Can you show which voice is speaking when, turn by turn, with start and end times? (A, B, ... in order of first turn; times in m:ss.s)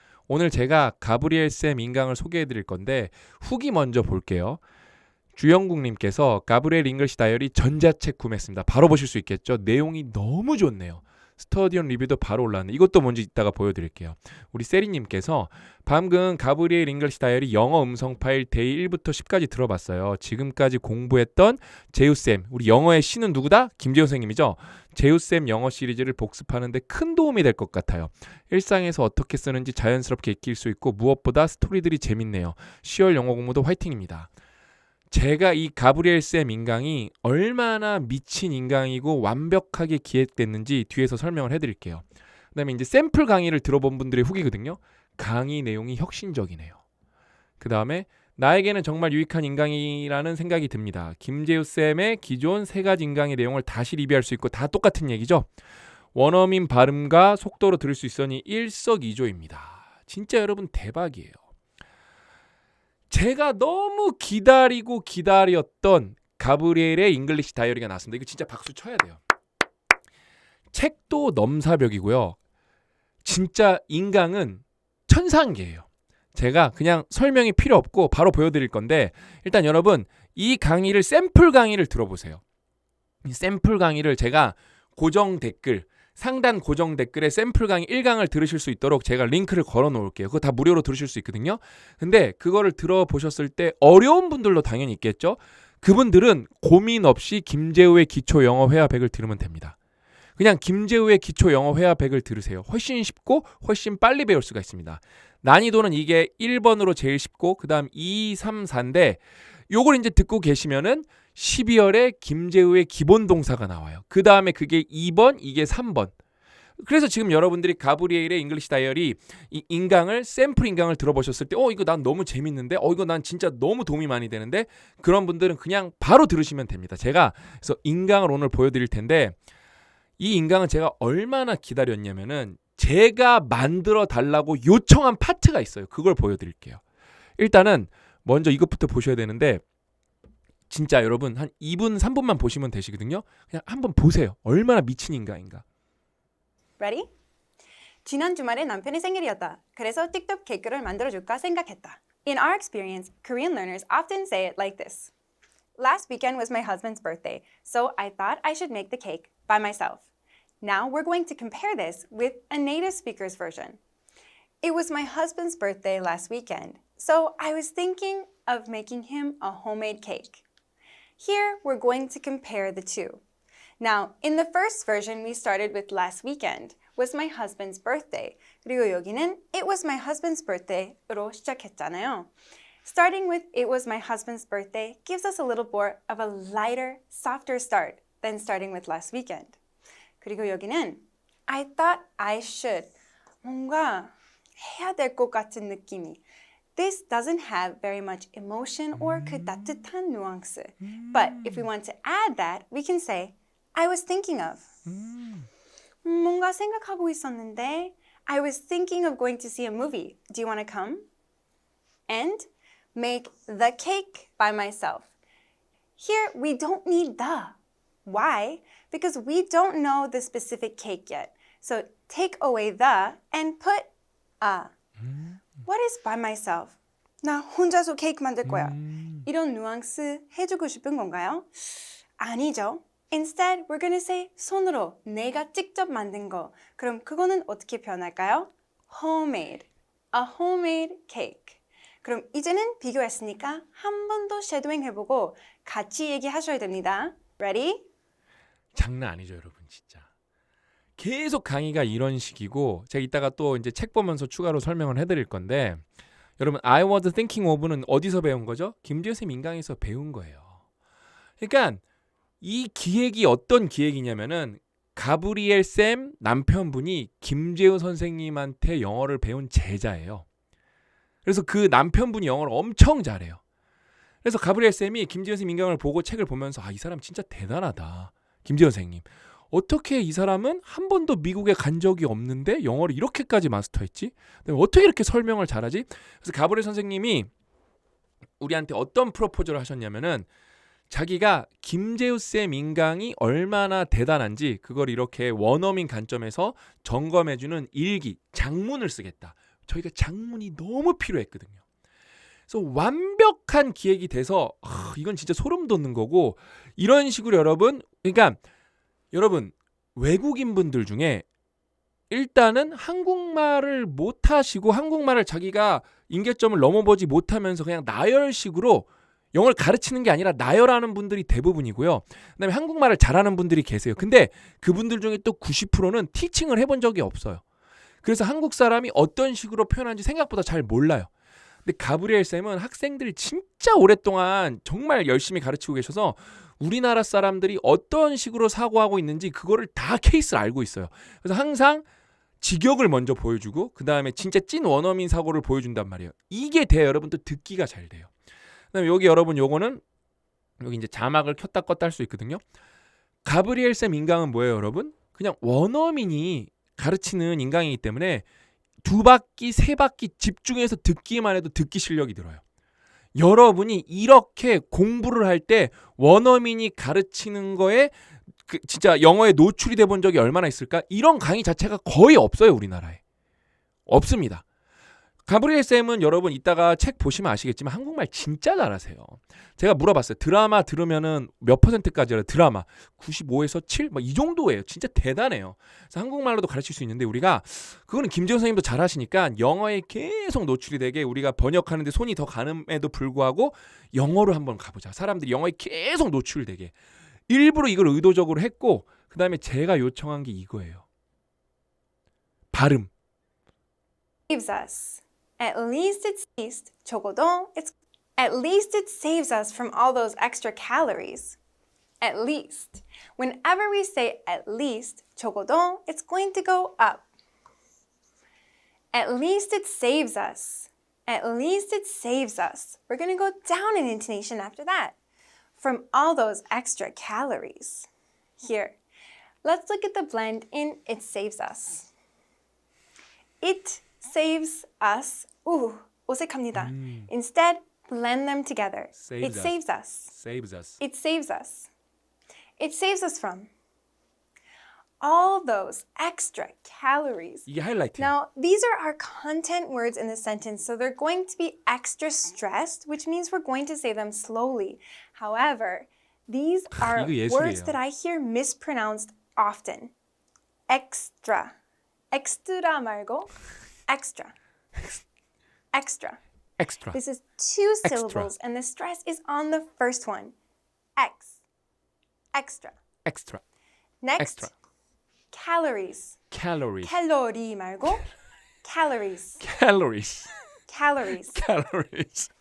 0:00.3-0:04.6 A
0:05.4-0:34.3 A
0:35.1-0:46.8 A
0:47.6-0:55.5 A
0:56.1-1:01.4 A
1:03.1-1:09.2 A
1:10.7-1:12.4 A
1:13.2-1:22.4 A
1:23.2-1:39.8 A
1:40.4-1:56.1 A
1:56.8-2:09.4 A
2:10.2-2:16.8 A
2:17.4-2:19.6 A
2:20.7-2:25.6 A
2:26.8-2:27.1 B
2:28.0-2:35.1 B
2:35.8-2:40.1 B
2:40.6-2:43.8 B
2:44.6-2:50.4 B
2:51.2-2:53.2 B
2:53.8-3:02.3 B
3:02.8-3:09.6 B
3:10.2-3:16.2 B
3:16.8-3:24.7 B
3:19.0-3:19.8 A
3:20.8-3:21.7 A
3:24.9-3:25.5 A
3:26.0-3:31.1 B
3:32.1-3:35.1 B
3:36.0-3:44.7 B
3:45.0-3:45.4 A
3:45.6-4:07.9 B
3:48.4-3:49.3 A
4:08.8-4:10.1 A
4:11.0-4:15.8 A
4:16.4-4:20.6 A
4:21.4-4:21.8 A
4:22.4-4:30.3 A
4:31.2-4:33.4 A
4:34.2-4:47.3 A
4:48.4-4:50.3 A
4:50.9-5:01.6 A
5:02.5-5:08.4 A
5:09.1-5:11.3 A
5:12.1-5:27.4 A
5:28.0-5:31.1 A
5:31.6-5:41.8 A
5:42.4-5:48.1 A
5:48.7-5:49.8 A
5:50.6-5:52.4 A
5:53.2-5:58.2 A
5:58.8-6:02.4 A
6:03.2-6:13.0 A
6:13.9-6:14.4 A
6:15.3-6:36.8 A
6:37.3-6:40.9 A
6:42.5-6:42.9 A
6:44.3-6:51.4 B
6:52.0-6:57.1 B
6:58.9-7:05.0 B
7:05.6-7:07.9 B
7:08.4-7:08.8 B
7:09.4-7:11.9 B
7:13.4-7:20.1 B
7:16.5-7:17.1 A
7:19.0-7:20.8 A
7:20.8-7:21.7 B
7:22.6-7:23.5 B
7:25.0-7:27.5 B
7:27.5-7:28.1 A
7:28.0-7:39.9 B
7:36.8-7:37.8 A
7:40.7-7:41.6 B
7:42.1-7:43.3 B
7:43.9-7:44.3 B
7:45.7-7:46.2 B
7:46.6-7:47.0 A
7:46.9-7:50.4 B
7:47.8-7:48.3 A
7:51.0-7:51.4 B
7:52.3-7:52.8 B
7:53.0-7:53.4 A
7:54.0-7:54.5 B
7:54.2-7:54.5 A
7:55.3-7:56.2 B
7:56.3-7:56.9 A
7:56.8-7:58.1 B
7:58.6-7:59.4 B
7:59.4-8:00.4 A
8:00.7-8:01.4 B
8:01.2-8:02.3 A